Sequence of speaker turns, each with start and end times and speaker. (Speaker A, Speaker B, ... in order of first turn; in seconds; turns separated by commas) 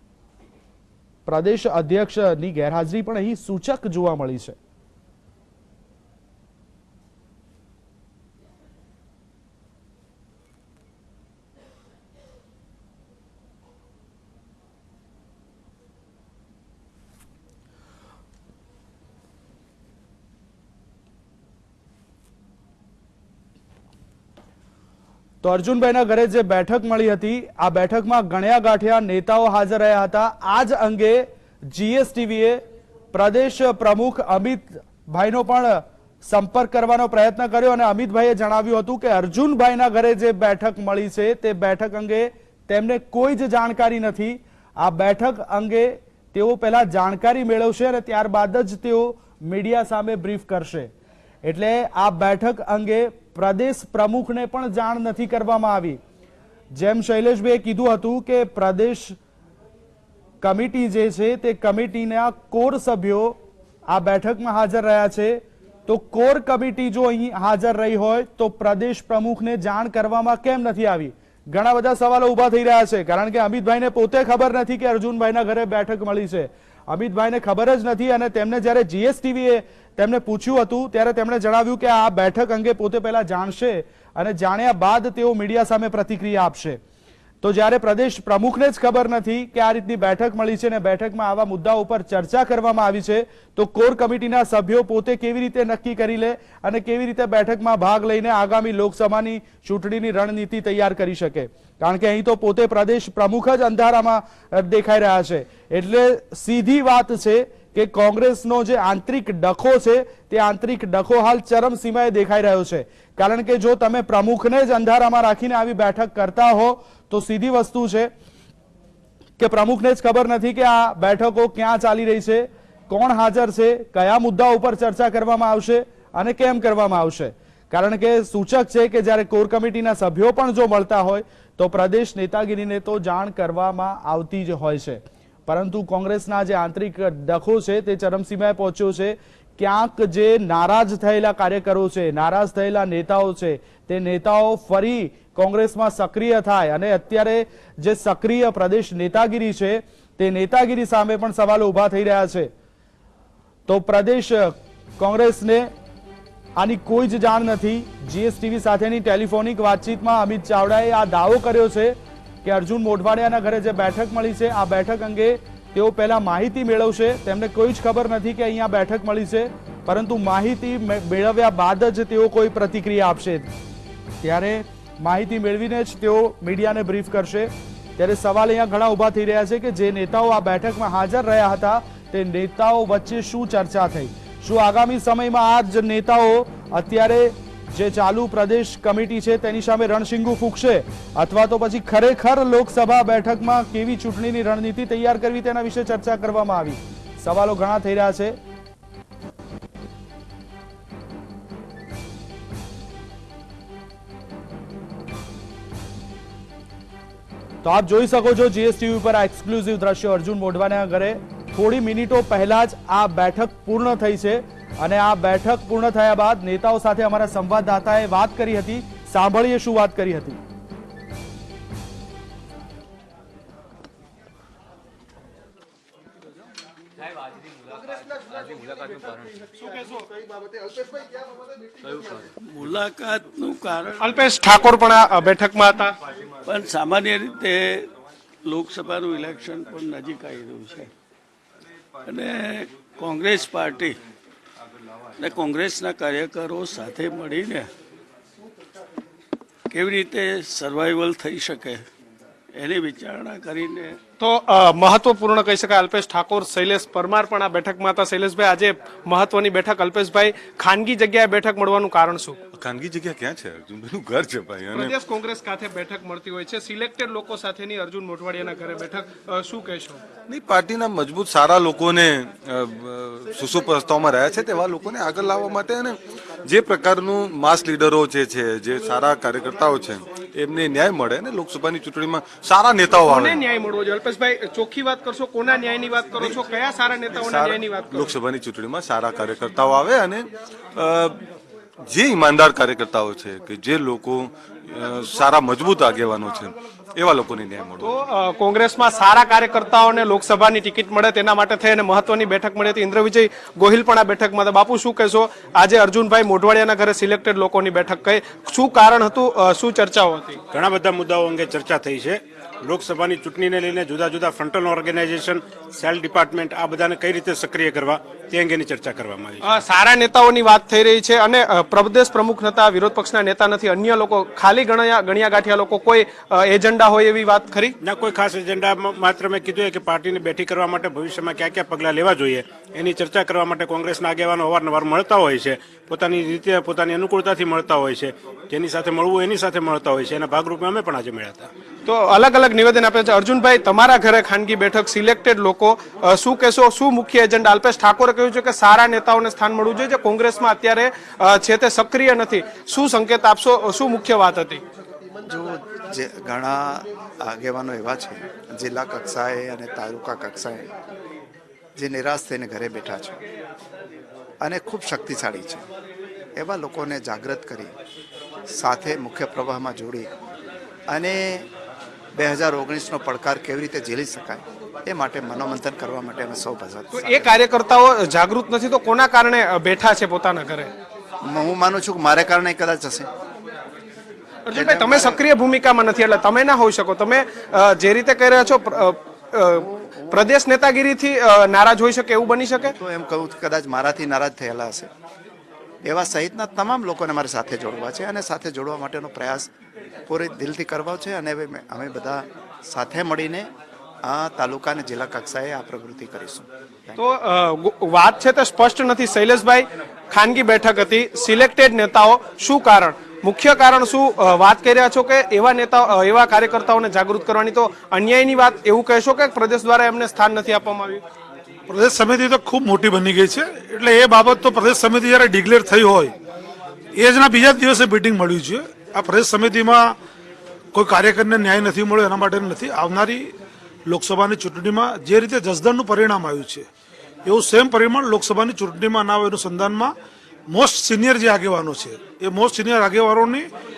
Speaker A: 1.2-4.5, Speaker A: 25.4-50.9, Speaker A: 51.4-56.0, Speaker A: 56.7-59.2, Speaker A: 60.4-63.4, Speaker A: 63.9-86.8, Speaker A: 87.4-118.1, Speaker A: 119.4-152.5, Speaker A: 153.7-155.7, Speaker A: 156.6-173.5, Speaker A: 174.2-198.3, Speaker A: 207.6-220.4, Speaker B: 229.6-230.0, Speaker C: 232.4-234.1, Speaker B: 234.0-235.9, Speaker C: 236.4-237.9, Speaker C: 238.4-240.9, Speaker C: 242.1-244.0, Speaker C: 245.2-247.7, Speaker C: 249.7-251.8, Speaker C: 252.5-254.0, Speaker B: 254.2-262.4, Speaker D: 262.6-264.9, Speaker B: 264.7-270.0, Speaker D: 270.3-283.4, Speaker B: 283.0-288.1, Speaker D: 287.1-291.2, Speaker D: 291.9-297.9, Speaker B: 297.8-310.4, Speaker E: 310.5-319.4, Speaker B: 319.4-327.7, Speaker E: 327.8-341.5, Speaker B: 341.8-354.6, Speaker F: 355.3-360.7, Speaker F: 361.7-363.2, Speaker F: 364.4-365.6, Speaker F: 366.4-367.7, Speaker F: 368.5-370.1, Speaker F: 370.9-371.5, Speaker F: 372.1-377.3, Speaker B: 376.9-380.7, Speaker F: 381.2-383.1, Speaker B: 384.4-392.8, Speaker F: 384.5-385.2, Speaker F: 392.8-394.9, Speaker F: 395.8-399.5, Speaker F: 400.1-403.5, Speaker F: 404.0-407.0, Speaker B: 407.0-421.0, Speaker G: 421.7-426.1, Speaker G: 427.0-429.9, Speaker G: 430.7-433.3, Speaker G: 433.9-436.6, Speaker G: 437.2-439.9, Speaker G: 440.5-443.5